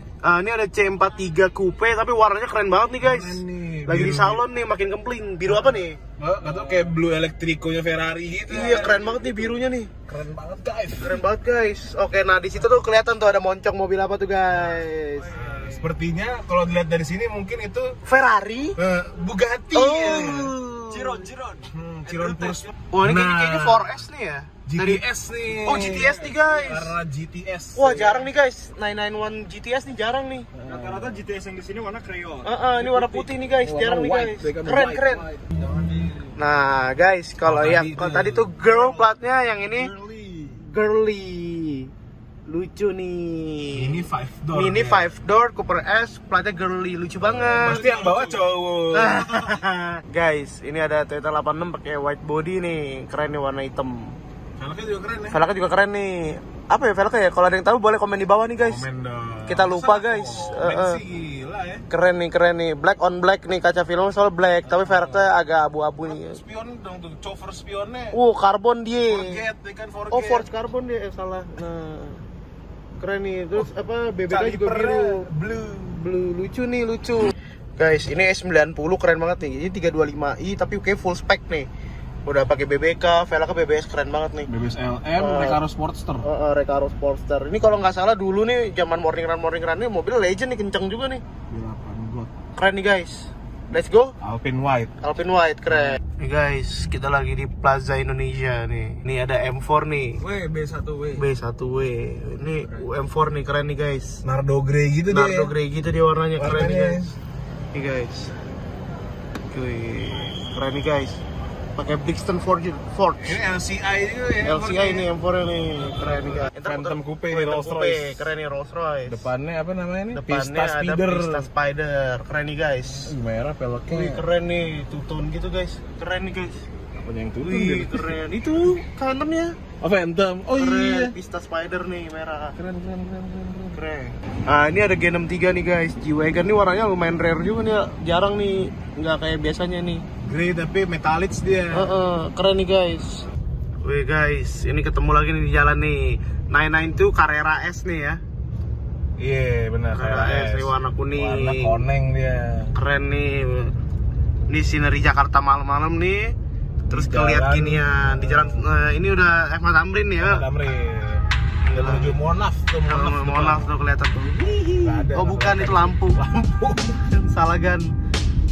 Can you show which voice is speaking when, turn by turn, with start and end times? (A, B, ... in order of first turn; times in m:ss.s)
0:00.2-0:06.0 A
0:03.0-0:04.4 B
0:05.5-0:09.5 B
0:08.5-0:09.9 A
0:10.1-0:11.2 B
0:11.0-0:15.8 A
0:15.4-0:18.0 B
0:18.0-0:18.8 A
0:18.8-0:20.6 B
0:19.7-0:21.2 A
0:20.9-0:21.7 C
0:21.7-0:23.8 B
0:22.2-0:22.6 C
0:22.9-0:25.0 A
0:24.6-0:28.3 B
0:25.6-0:27.0 A
0:27.7-0:30.5 A
0:30.6-0:36.3 B
0:30.6-0:32.1 C
0:32.4-0:35.3 A
0:36.4-0:39.9 A
0:37.4-0:39.1 B
0:39.7-0:40.6 B
0:40.6-0:41.9 A
0:42.4-0:48.4 A
0:43.7-0:45.1 B
0:47.3-0:49.6 B
0:48.9-0:54.2 A
0:54.6-0:55.4 B
0:55.3-0:58.9 A
0:58.6-1:01.8 B
0:59.4-1:01.0 A
1:01.9-1:06.4 A
1:04.6-1:05.3 B
1:06.0-1:08.2 B
1:08.1-1:09.4 A
1:09.1-1:10.5 B
1:10.1-1:12.2 A
1:13.0-1:21.7 A
1:14.3-1:15.9 B
1:22.2-1:24.5 A
1:24.5-1:26.3 B
1:25.1-1:25.6 A
1:26.2-1:31.2 A
1:31.5-1:32.3 B
1:32.6-1:34.1 A
1:34.2-1:35.0 B
1:35.0-1:40.2 A
1:35.7-1:36.0 B
1:40.2-1:40.5 B
1:40.4-1:41.2 C
1:41.1-1:44.2 A
1:44.2-1:45.5 B
1:45.1-1:47.1 A
1:46.4-1:47.1 B
1:47.7-1:48.3 A
1:49.5-1:51.2 A
1:51.8-1:53.4 A
1:53.2-1:55.1 B
1:54.4-1:59.3 A
1:56.3-1:58.2 B
1:59.1-2:01.5 B
2:00.1-2:03.2 A
2:03.0-2:04.2 B
2:03.9-2:06.6 A
2:07.0-2:08.2 B
2:07.4-2:09.6 A
2:09.8-2:11.1 B
2:10.5-2:12.6 A
2:12.6-2:13.8 B
2:13.7-2:20.0 A
2:20.2-2:21.9 B
2:21.7-2:23.2 A
2:23.8-2:28.2 A
2:29.2-2:32.7 B
2:29.9-2:31.8 A
2:32.7-2:33.7 A
2:34.5-2:36.3 A
2:36.9-2:40.5 A
2:36.9-2:38.6 B
2:40.2-2:43.7 B
2:41.6-2:42.2 A
2:42.9-2:46.3 A
2:44.8-2:47.0 B
2:47.0-2:47.9 A